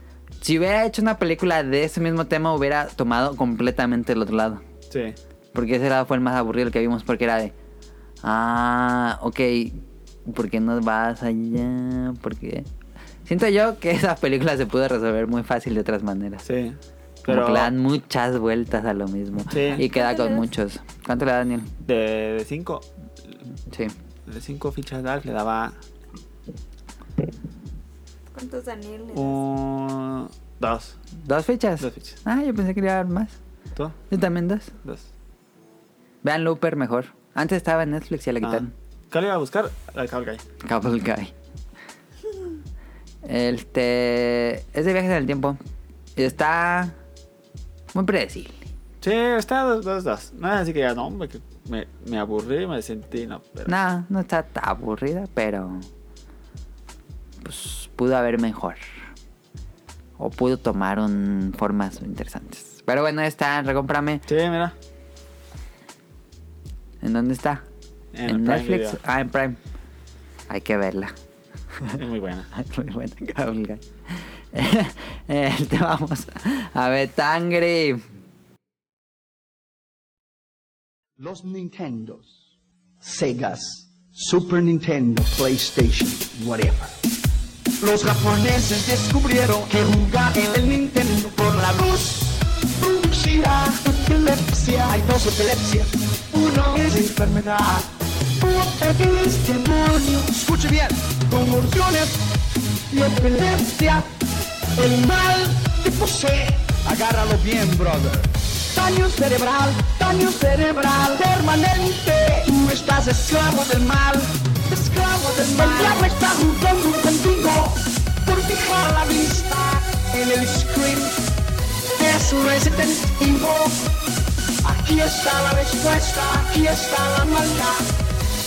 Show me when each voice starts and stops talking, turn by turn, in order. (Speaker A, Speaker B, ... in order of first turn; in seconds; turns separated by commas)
Speaker A: 0.4-4.6, Speaker B: 4.9-5.2, Speaker A: 5.5-7.5, Speaker A: 8.2-12.7, Speaker A: 13.2-16.4, Speaker B: 16.4-17.7, Speaker A: 17.2-21.7, Speaker B: 19.5-19.9, Speaker C: 19.8-20.4, Speaker B: 21.8-23.4, Speaker A: 23.7-23.9, Speaker B: 24.3-25.8, Speaker C: 28.3-29.4, Speaker B: 29.1-31.0, Speaker A: 31.2-33.4, Speaker B: 31.8-32.2, Speaker B: 33.7-34.0, Speaker A: 34.1-34.7, Speaker B: 34.8-35.1, Speaker A: 36.2-38.7, Speaker B: 38.4-40.4, Speaker A: 40.6-41.3, Speaker A: 43.2-45.6, Speaker A: 46.1-47.0, Speaker A: 47.9-48.6, Speaker B: 49.0-53.7, Speaker A: 53.7-55.9, Speaker A: 57.4-58.8, Speaker A: 60.2-64.2, Speaker B: 64.3-64.7, Speaker A: 67.0-67.6, Speaker B: 68.1-69.0, Speaker A: 68.2-69.6, Speaker A: 70.5-71.1, Speaker B: 71.9-72.5, Speaker A: 72.5-78.0, Speaker D: 81.2-82.3, Speaker D: 83.0-87.0, Speaker D: 87.8-102.3, Speaker D: 102.9-104.1, Speaker D: 104.7-121.2, Speaker C: 115.6-116.0, Speaker D: 122.0-123.9, Speaker D: 124.6-127.9